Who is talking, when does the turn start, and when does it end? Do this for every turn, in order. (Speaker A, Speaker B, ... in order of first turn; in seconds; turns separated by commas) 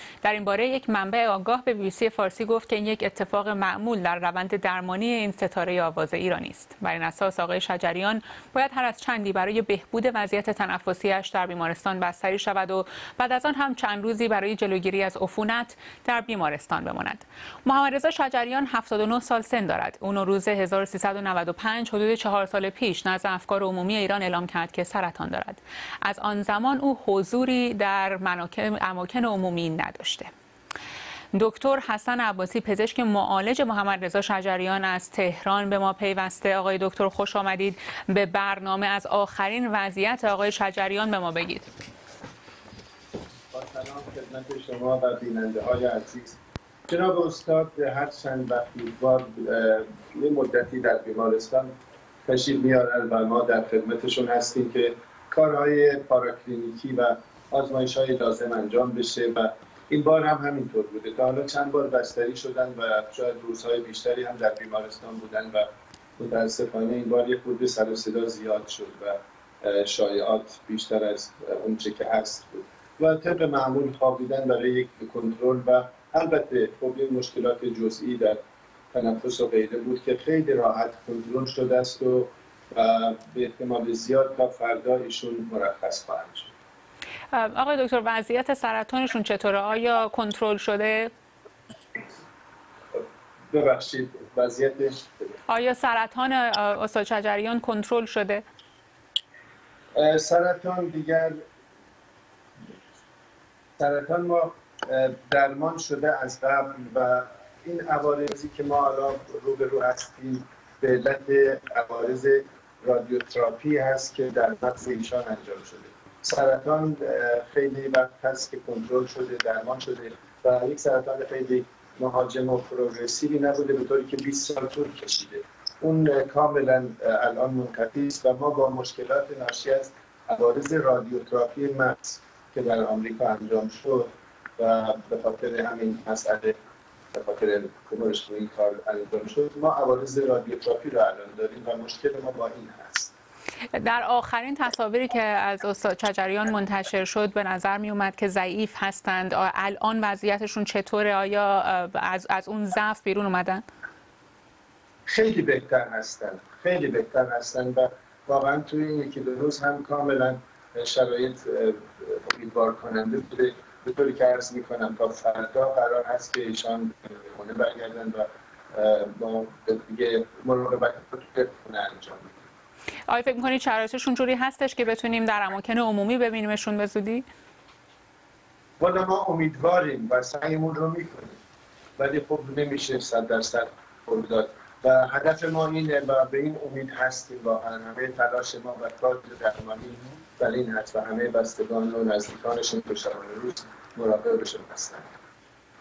Speaker A: 0.2-30.3, Speaker A: 31.3-41.7, Speaker B: 43.5-51.7, Speaker B: 52.2-78.4, Speaker B: 78.9-86.5, Speaker A: 87.3-91.1, Speaker B: 92.9-95.4, Speaker A: 95.5-98.4, Speaker B: 99.9-101.4, Speaker B: 103.8-136.5, Speaker B: 137.1-143.1, Speaker A: 143.7-153.6, Speaker B: 155.1-172.4, Speaker A: 173.1-177.2, Speaker B: 178.8-181.4, Speaker B: 182.0-195.1